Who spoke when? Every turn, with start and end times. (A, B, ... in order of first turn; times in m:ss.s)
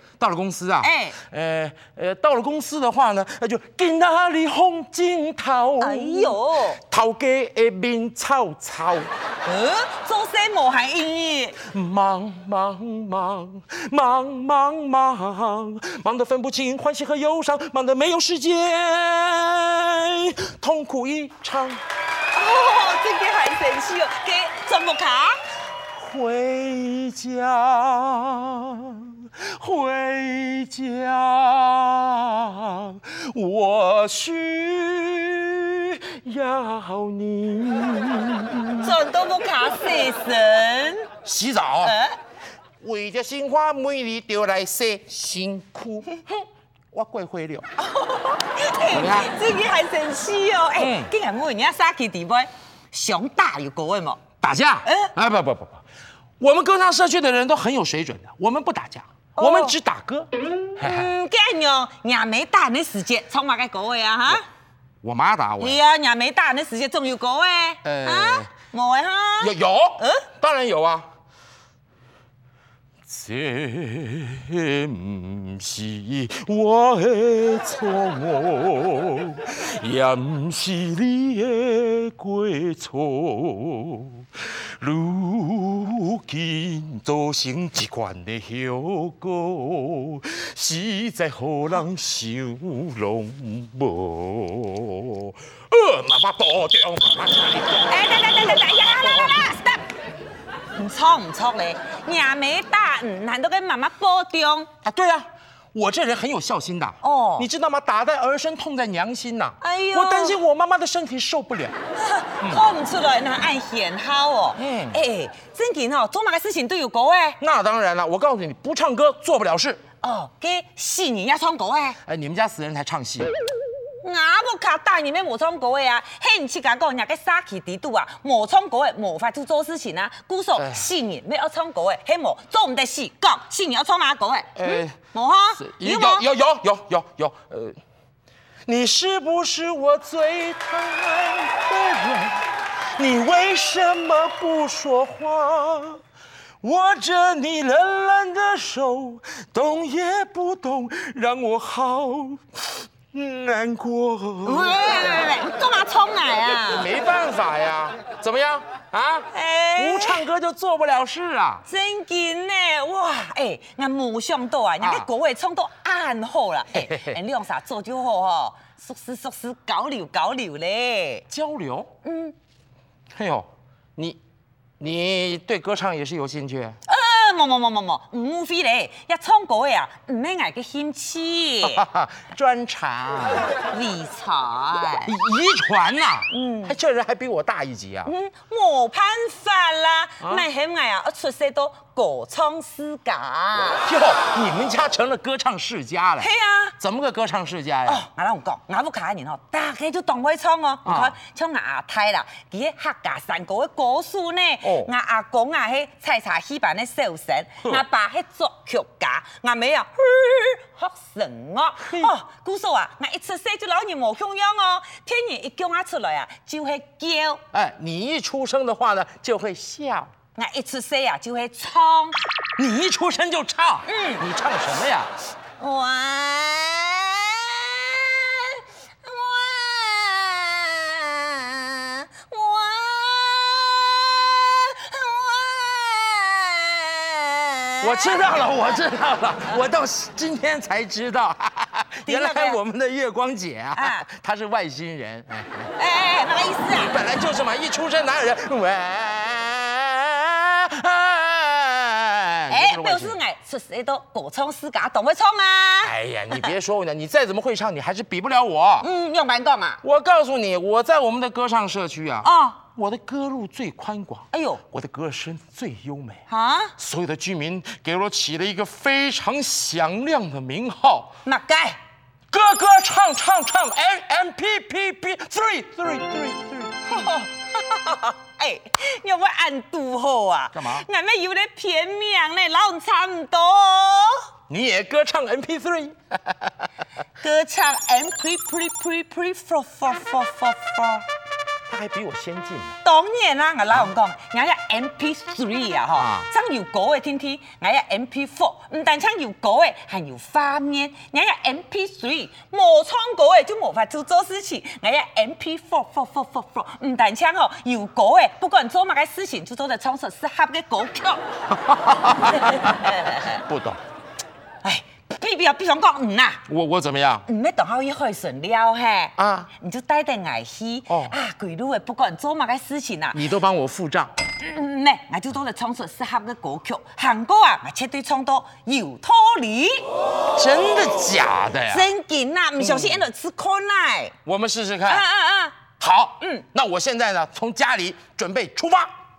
0:00.2-0:09.1 A
0:00.8-0:01.2 B
0:05.8-0:06.8 B
0:09.4-0:11.6 B
0:11.6-0:21.8 A
0:22.3-0:25.4 B
0:25.9-0:39.0 A
0:38.8-0:41.1 B
0:41.2-0:42.0 A
0:41.8-0:42.2 B
0:42.8-0:47.6 A
0:47.8-0:54.3 B
0:48.9-0:49.3 A
0:50.8-0:51.1 A
0:54.4-0:55.8 A
0:54.8-0:55.1 B
0:56.4-1:01.1 A
0:59.4-0:59.8 B
1:00.8-1:04.4 B
1:05.0-1:05.8 A
1:05.6-1:10.2 B
1:07.8-1:08.5 A
1:09.4-1:11.0 A
1:13.1-1:38.0 A
1:37.9-1:39.8 B
1:40.8-1:44.7 B
1:44.8-1:51.7 A
1:47.0-1:47.5 B
1:49.6-1:50.4 B
1:51.9-1:57.4 B
1:52.4-1:52.7 A
1:54.6-1:55.0 A
1:57.4-1:59.8 A
2:00.0-2:02.0 B
2:02.0-2:03.3 A
2:04.0-2:16.2 B
2:10.6-2:10.9 A
2:14.6-2:15.0 A
2:15.6-2:17.8 A
2:18.6-2:22.4 A
2:23.0-2:26.0 A
2:26.6-2:35.0 A
2:34.4-2:36.9 B
2:36.6-2:41.6 A
2:39.3-2:40.2 B
2:41.6-2:51.2 B
2:44.8-2:45.1 A
2:46.7-2:47.1 A
2:51.3-2:51.9 A
2:52.0-2:52.3 B
2:53.1-2:54.2 A
2:54.8-2:56.8 A
2:56.9-3:01.8 B
3:01.6-3:03.5 A
3:03.7-3:05.1 B
3:05.0-3:08.1 A
3:06.3-3:06.8 B
3:08.0-3:13.8 B
3:10.2-3:10.5 A
3:13.8-3:18.0 A
3:16.2-3:16.7 B
3:17.8-3:37.4 B
3:20.8-3:21.1 A
3:24.6-3:24.9 A
3:31.8-3:32.1 A
3:37.5-3:40.1 A
3:40.3-3:42.2 B
3:42.6-3:45.1 A
3:43.8-3:44.2 B
3:45.6-3:58.4 B
3:57.8-4:05.7 A
4:02.0-4:02.6 B
4:03.7-4:04.0 B
4:05.8-4:07.0 B
4:06.8-4:13.2 A
4:12.5-4:16.5 B
4:15.8-4:18.9 A
4:18.8-4:19.8 B
4:19.8-4:26.2 A
4:22.2-4:22.6 B
4:24.3-4:24.6 B
4:26.3-4:26.7 B
4:26.8-4:31.1 A
4:31.2-4:31.8 B
4:32.3-4:37.1 A
4:36.9-4:44.3 B
4:40.5-4:40.9 A
4:44.5-4:46.7 A
4:47.2-4:51.0 B
4:51.7-4:52.8 A
4:52.8-5:11.2 B
4:56.0-4:56.3 A
5:11.5-5:13.8 A
5:12.2-5:13.4 B
5:14.6-5:16.4 B
5:16.5-5:17.2 A
5:17.3-5:23.2 B
5:19.2-5:19.5 A
5:20.9-5:21.2 A
5:23.1-5:24.1 A
5:24.4-5:29.9 B
5:30.3-5:31.9 A
5:31.7-5:34.2 B
5:32.6-5:33.1 A
5:34.2-5:35.0 A
5:34.8-5:35.6 B
5:35.8-5:38.9 A